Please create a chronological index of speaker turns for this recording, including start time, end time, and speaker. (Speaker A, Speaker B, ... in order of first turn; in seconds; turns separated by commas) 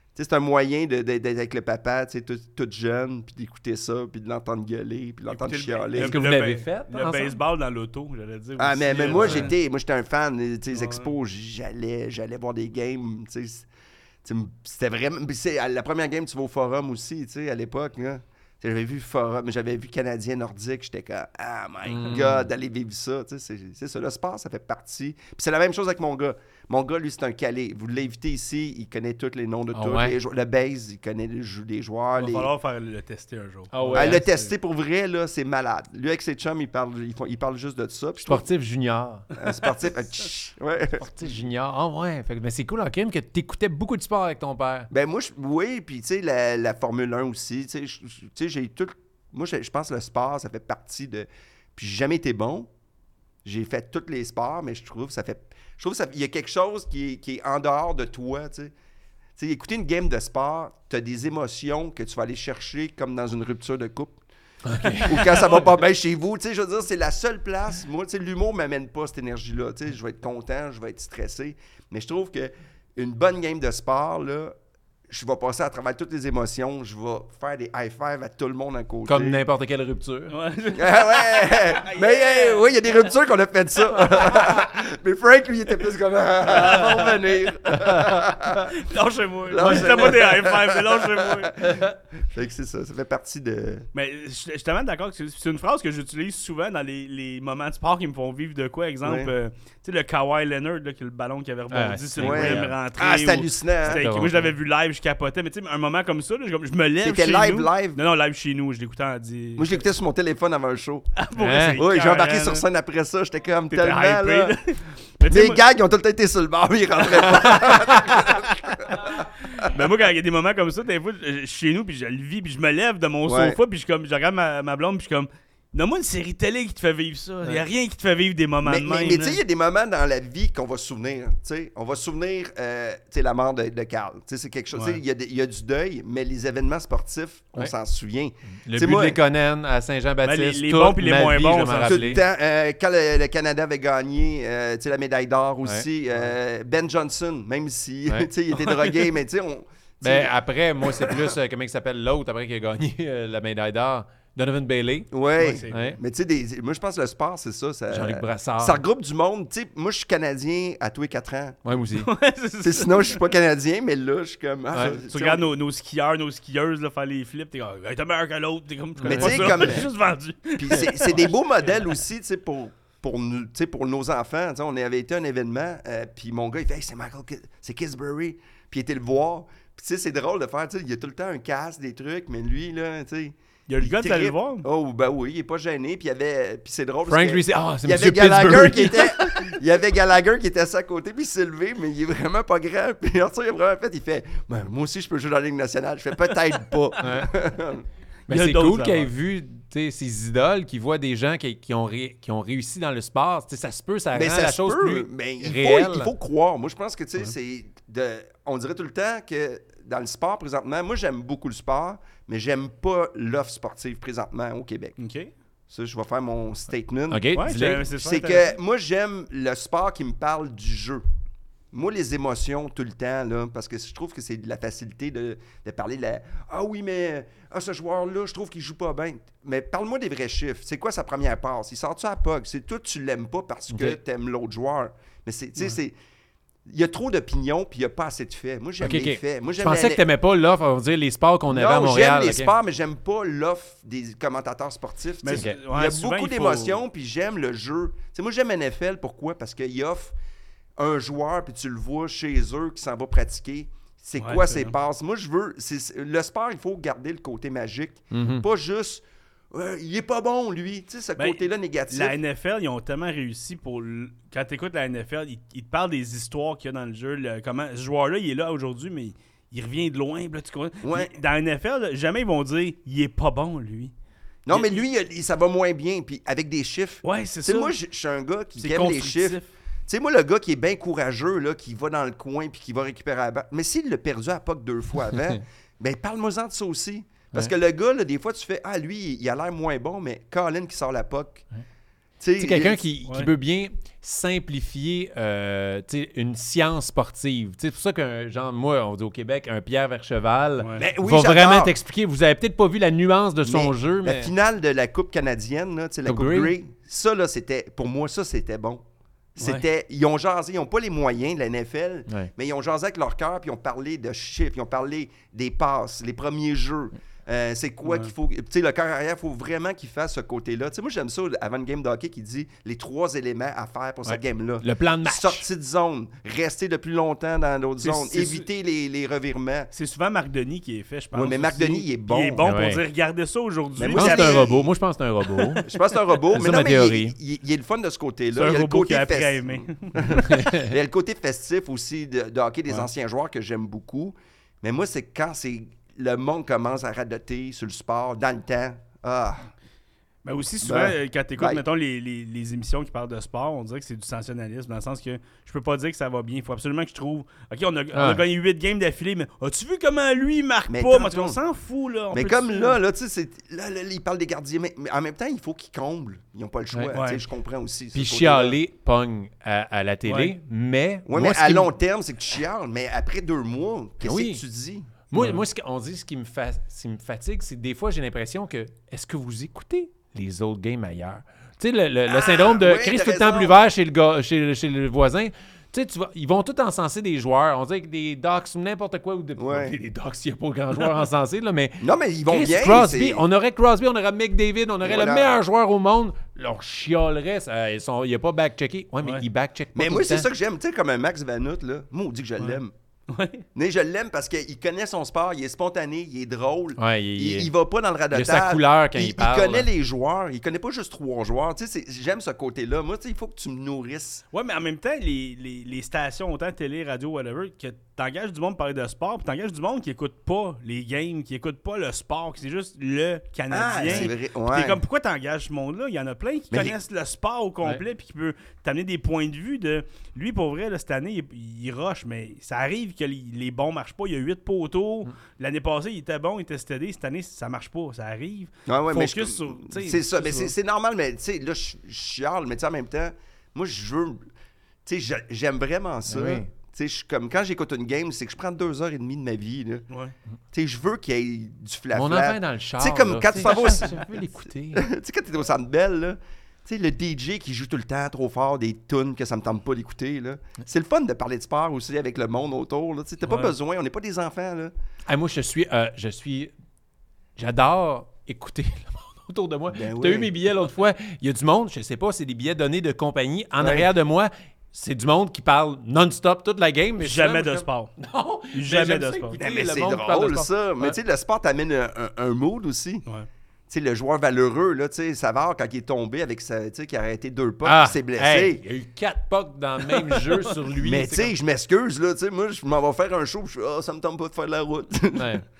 Speaker A: 0.1-6.2, Speaker B: 5.3-9.5, Speaker C: 6.0-7.4, Speaker A: 8.6-13.7, Speaker C: 9.2-9.5, Speaker B: 10.7-11.1, Speaker A: 14.2-32.5, Speaker C: 21.9-22.5, Speaker C: 29.7-30.1, Speaker B: 32.2-34.5, Speaker C: 33.7-34.2, Speaker A: 33.9-38.5, Speaker C: 38.2-39.3, Speaker A: 39.4-41.1, Speaker C: 41.0-44.9, Speaker A: 44.9-52.7, Speaker A: 53.4-58.7, Speaker A: 59.4-64.2, Speaker C: 64.6-65.4, Speaker A: 65.0-74.5, Speaker A: 75.1-79.4, Speaker C: 79.0-80.3, Speaker B: 80.3-82.7, Speaker A: 80.7-88.7, Speaker B: 86.5-87.2, Speaker C: 87.8-88.1, Speaker B: 88.7-91.5, Speaker A: 89.5-93.9, Speaker C: 89.6-90.2, Speaker C: 91.6-91.9, Speaker B: 93.9-109.8, Speaker A: 99.0-99.3, Speaker C: 101.7-102.7, Speaker A: 102.2-104.0, Speaker C: 103.9-104.5, Speaker A: 107.0-108.0, Speaker A: 109.6-111.2, Speaker B: 111.2-112.6, Speaker C: 111.4-111.8, Speaker A: 111.7-114.5, Speaker B: 113.7-115.6, Speaker A: 115.3-119.7, Speaker C: 117.6-118.2, Speaker B: 119.0-129.4, Speaker A: 123.2-123.6, Speaker A: 128.6-139.2, Speaker B: 134.7-135.0, Speaker C: 138.6-142.2, Speaker B: 140.2-142.2, Speaker A: 141.8-151.3, Speaker B: 148.5-149.1, Speaker C: 150.0-155.1, Speaker A: 155.1-161.6, Speaker B: 155.4-155.9, Speaker C: 155.7-156.0, Speaker C: 157.9-158.8, Speaker C: 161.6-162.1, Speaker B: 162.0-163.2, Speaker A: 162.6-165.4, Speaker B: 164.9-171.4, Speaker C: 169.0-169.8, Speaker A: 169.0-169.9, Speaker A: 170.6-197.8, Speaker B: 183.7-184.7, Speaker C: 187.1-189.5, Speaker C: 197.0-197.3, Speaker B: 198.3-199.1, Speaker C: 198.3-206.1, Speaker A: 204.1-215.0, Speaker B: 215.0-215.3, Speaker A: 215.7-217.3, Speaker C: 217.1-217.8, Speaker B: 217.3-218.5, Speaker A: 217.9-221.0, Speaker A: 221.7-235.9, Speaker C: 233.7-234.0, Speaker A: 236.7-240.0, Speaker C: 238.8-242.5, Speaker A: 241.5-250.1, Speaker B: 245.2-246.8, Speaker C: 245.3-245.6, Speaker A: 250.8-262.2, Speaker B: 254.2-254.7, Speaker C: 258.1-258.4, Speaker B: 261.2-273.9, Speaker A: 270.8-271.1, Speaker A: 274.4-291.4, Speaker B: 274.5-274.8, Speaker B: 277.0-277.7, Speaker B: 278.6-279.5, Speaker A: 292.2-292.8, Speaker C: 292.4-304.3, Speaker A: 300.8-301.7, Speaker A: 303.4-308.8, Speaker C: 306.1-306.5, Speaker A: 309.4-329.7, Speaker B: 309.4-309.6, Speaker B: 317.9-318.1, Speaker C: 324.1-325.4, Speaker B: 327.8-328.5, Speaker B: 329.7-334.6, Speaker A: 331.1-332.4, Speaker C: 332.4-332.8, Speaker A: 333.8-334.7, Speaker C: 333.9-335.7, Speaker A: 335.6-349.5, Speaker C: 336.3-337.1, Speaker B: 338.3-340.3, Speaker C: 340.1-340.7, Speaker B: 350.2-362.8, Speaker A: 350.6-351.6, Speaker C: 357.9-358.2, Speaker A: 360.7-361.4, Speaker A: 362.1-368.6, Speaker B: 366.9-367.2, Speaker C: 367.9-371.7, Speaker B: 370.1-370.3, Speaker A: 371.1-374.9, Speaker C: 374.0-374.4, Speaker C: 375.1-400.3, Speaker A: 382.1-383.6, Speaker A: 389.4-389.7, Speaker A: 391.8-393.2, Speaker A: 394.8-395.3, Speaker A: 399.7-402.7, Speaker B: 403.1-403.4, Speaker A: 403.5-414.2, Speaker C: 406.8-407.5, Speaker C: 408.1-409.7, Speaker B: 414.3-440.5, Speaker A: 423.5-424.8, Speaker A: 438.7-444.2, Speaker A: 444.8-449.9, Speaker C: 446.1-446.5, Speaker B: 449.9-450.1, Speaker A: 450.5-454.1, Speaker C: 451.9-454.9, Speaker A: 454.7-464.7, Speaker C: 465.1-466.5, Speaker C: 467.4-480.9, Speaker A: 469.7-470.3, Speaker A: 473.6-473.9, Speaker B: 477.0-477.9, Speaker B: 478.5-479.4, Speaker A: 479.4-483.0, Speaker A: 483.7-488.6, Speaker C: 487.6-491.3, Speaker B: 490.0-490.5, Speaker A: 490.8-495.4, Speaker C: 495.1-495.4